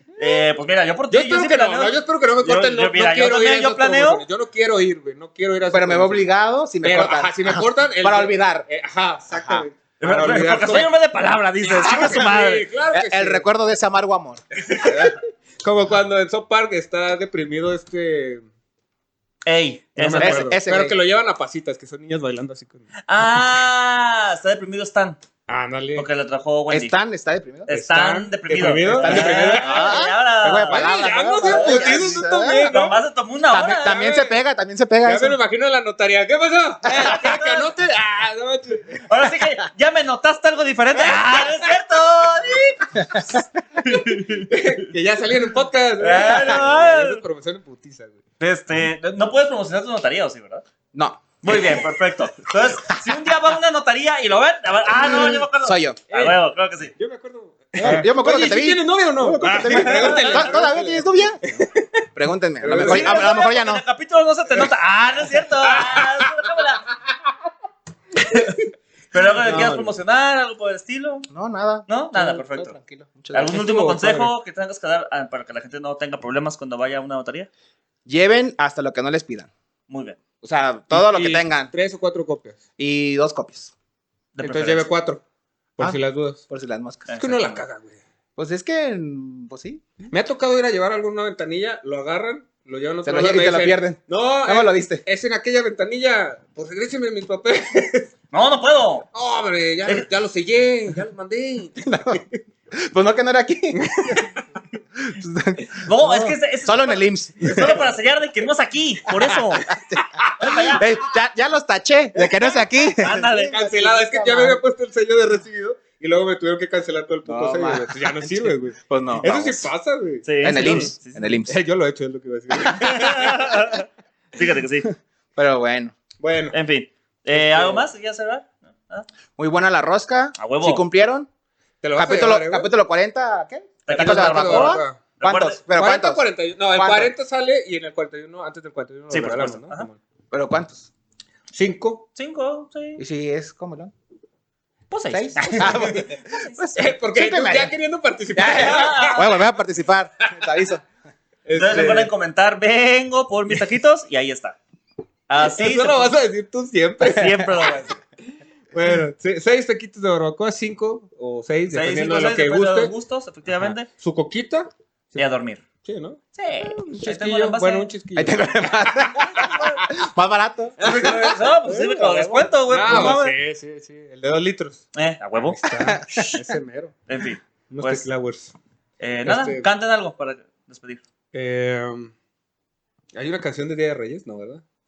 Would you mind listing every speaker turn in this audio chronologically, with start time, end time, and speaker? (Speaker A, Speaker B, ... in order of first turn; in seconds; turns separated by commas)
Speaker A: 0.2-4.2, Speaker B: 1.1-6.3, Speaker C: 5.7-8.7, Speaker B: 6.8-10.9, Speaker C: 9.3-9.6, Speaker A: 10.0-12.7, Speaker B: 11.6-13.4, Speaker C: 12.9-14.4, Speaker B: 14.6-18.4, Speaker A: 19.4-20.6, Speaker B: 20.0-22.9, Speaker C: 20.2-20.9, Speaker A: 23.1-25.2, Speaker B: 25.5-26.1, Speaker A: 25.9-26.9, Speaker C: 26.7-27.7, Speaker A: 27.6-30.9, Speaker B: 27.7-33.0, Speaker C: 28.9-32.8, Speaker A: 31.4-34.0, Speaker C: 33.5-35.4, Speaker B: 33.6-34.4, Speaker B: 35.0-39.1, Speaker C: 36.9-37.2, Speaker A: 36.9-37.7, Speaker A: 39.0-44.9, Speaker B: 41.0-41.7, Speaker C: 43.0-43.8, Speaker B: 44.5-48.2, Speaker A: 46.0-47.2, Speaker A: 48.4-50.6, Speaker C: 50.9-51.3, Speaker A: 51.4-56.9, Speaker C: 55.0-56.0, Speaker B: 56.1-56.4, Speaker B: 56.9-61.8, Speaker C: 57.8-61.5, Speaker A: 57.8-58.0, Speaker A: 59.4-60.6, Speaker C: 62.1-63.8, Speaker B: 62.6-63.4, Speaker A: 62.7-66.8, Speaker B: 64.5-66.5, Speaker A: 68.2-68.6, Speaker A: 69.1-71.3, Speaker C: 69.4-69.9, Speaker B: 69.4-69.8, Speaker C: 71.3-73.6, Speaker A: 71.9-72.8, Speaker A: 73.3-77.5, Speaker B: 73.4-74.3, Speaker C: 78.1-79.5, Speaker A: 79.9-80.2, Speaker C: 80.4-81.7, Speaker B: 80.9-82.6, Speaker C: 82.8-83.7, Speaker A: 84.3-84.9, Speaker B: 84.4-85.2, Speaker B: 85.8-86.4, Speaker C: 86.5-87.1, Speaker A: 87.1-87.6, Speaker B: 87.2-88.0, Speaker C: 88.4-89.9, Speaker B: 90.1-98.1, Speaker C: 93.0-95.0, Speaker A: 98.3-99.1, Speaker B: 99.1-102.2, Speaker C: 101.8-104.3, Speaker B: 103.7-104.4, Speaker C: 105.0-107.9, Speaker A: 105.8-109.7, Speaker C: 109.1-114.6, Speaker A: 110.4-110.8, Speaker A: 112.8-113.6, Speaker B: 113.3-123.4, Speaker C: 117.2-119.7, Speaker A: 120.2-121.4, Speaker C: 120.4-121.6, Speaker A: 122.6-124.9, Speaker C: 125.3-125.9, Speaker B: 126.2-126.5, Speaker A: 126.5-129.1, Speaker B: 127.3-127.9, Speaker C: 129.4-131.3, Speaker A: 130.4-130.8, Speaker B: 131.8-132.7, Speaker C: 131.9-137.1, Speaker A: 133.8-135.6, Speaker B: 133.9-135.0, Speaker B: 135.7-140.0, Speaker A: 139.1-139.9, Speaker C: 140.3-140.9, Speaker B: 141.5-142.1, Speaker A: 142.1-143.0, Speaker C: 143.0-143.9, Speaker A: 144.9-146.6, Speaker C: 145.1-147.7, Speaker B: 145.3-146.0, Speaker B: 146.7-149.4, Speaker C: 148.3-150.8, Speaker A: 148.5-149.2, Speaker B: 151.4-152.1, Speaker A: 151.5-154.6, Speaker A: 155.3-156.2, Speaker B: 155.4-157.8, Speaker A: 157.0-158.0, Speaker B: 158.7-162.9, Speaker A: 161.7-163.9, Speaker B: 163.6-165.3, Speaker A: 165.1-165.6, Speaker B: 165.8-169.9, Speaker A: 166.3-167.9, Speaker C: 168.1-173.2, Speaker B: 170.8-171.8, Speaker A: 170.8-173.3, Speaker B: 172.7-177.0, Speaker A: 174.9-175.6, Speaker C: 175.7-176.5, Speaker A: 177.1-178.1, Speaker B: 177.7-178.5, Speaker A: 179.0-181.0, Speaker B: 179.2-179.7, Speaker B: 181.3-182.1, Speaker B: 183.1-184.6